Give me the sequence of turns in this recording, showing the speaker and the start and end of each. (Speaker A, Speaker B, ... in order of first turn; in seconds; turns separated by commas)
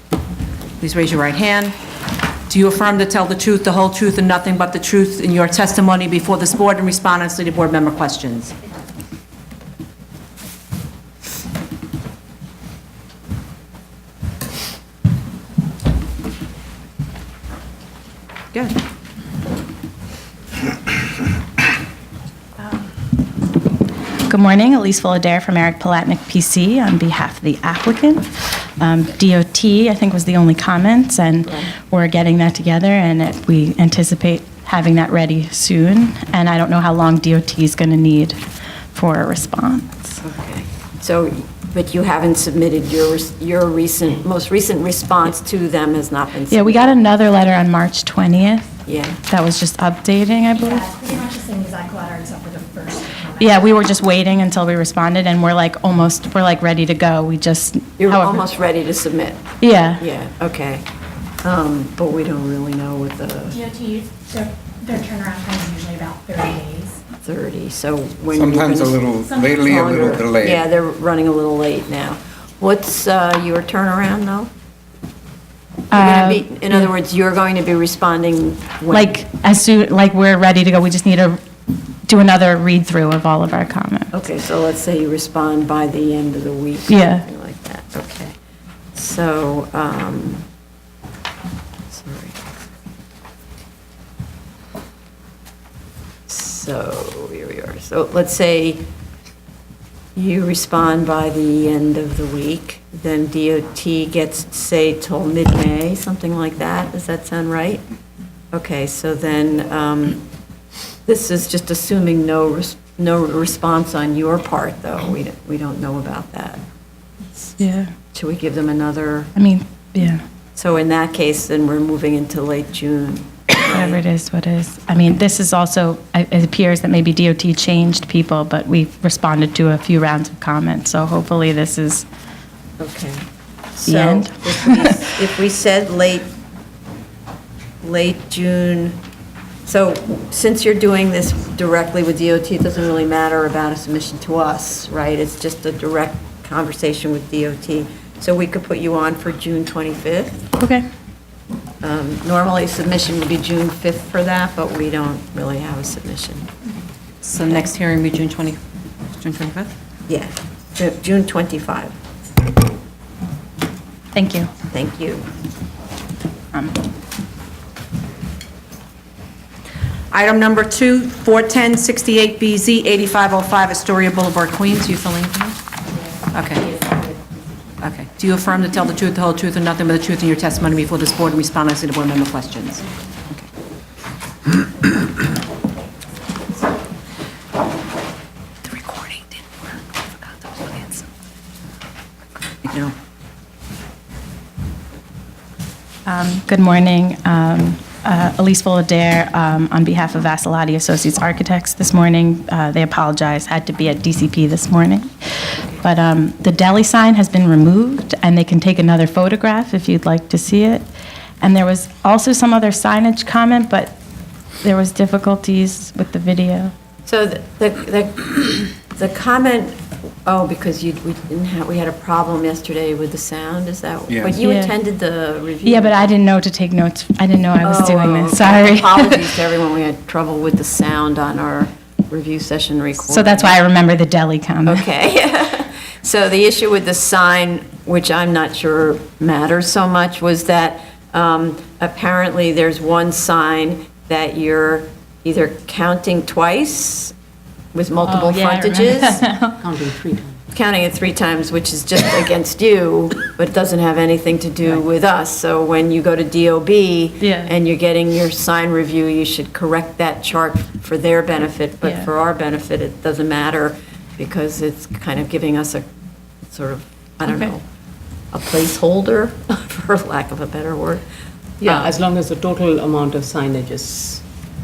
Speaker A: 0.8-1.8, Speaker A: 2.5-8.5, Speaker B: 24.3-38.4, Speaker B: 38.9-40.2, Speaker C: 40.2-47.0, Speaker B: 46.5-48.7, Speaker C: 48.9-49.2, Speaker B: 49.3-50.9, Speaker D: 50.6-53.6, Speaker B: 53.4-58.5, Speaker C: 58.0-59.5, Speaker B: 59.6-60.0, Speaker C: 60.0-60.8, Speaker C: 61.4-63.6, Speaker D: 63.5-67.0, Speaker C: 67.2-69.0, Speaker E: 68.3-70.6, Speaker C: 69.6-74.5, Speaker B: 75.9-76.9, Speaker C: 75.9-79.2, Speaker B: 78.9-81.4, Speaker B: 82.1-84.1, Speaker C: 84.1-88.3, Speaker B: 86.9-87.2, Speaker C: 89.0-90.5, Speaker C: 91.9-92.4, Speaker C: 96.3-98.8, Speaker C: 100.2-107.8, Speaker C: 108.5-110.2, Speaker C: 111.1-116.6, Speaker B: 117.6-117.9, Speaker C: 118.1-119.3, Speaker B: 119.4-120.2, Speaker C: 120.5-124.0, Speaker B: 123.7-132.1, Speaker C: 132.8-133.2, Speaker C: 133.8-136.3, Speaker B: 133.8-135.0, Speaker C: 137.8-139.0, Speaker C: 139.7-150.5, Speaker B: 150.6-150.8, Speaker C: 151.8-156.5, Speaker A: 157.2-158.6, Speaker A: 159.1-159.7, Speaker C: 160.1-161.9, Speaker B: 164.1-164.5, Speaker C: 164.7-165.3, Speaker A: 170.1-175.6, Speaker A: 176.3-176.7, Speaker A: 177.8-183.4, Speaker A: 188.7-189.4, Speaker A: 190.2-191.1, Speaker A: 192.6-192.9, Speaker B: 196.1-205.1, Speaker B: 205.8-210.9, Speaker B: 211.4-213.9, Speaker B: 214.6-216.7, Speaker C: 217.1-226.1, Speaker B: 224.3-224.7, Speaker B: 225.6-229.3, Speaker C: 227.6-233.6, Speaker B: 233.1-234.8, Speaker C: 234.7-247.1, Speaker C: 247.7-249.2, Speaker F: 248.0-248.3, Speaker B: 248.2-249.6, Speaker F: 249.6-250.4, Speaker C: 250.5-265.9, Speaker B: 257.2-257.5, Speaker C: 266.5-267.6, Speaker C: 268.3-271.0, Speaker F: 271.6-274.2, Speaker C: 271.6-271.9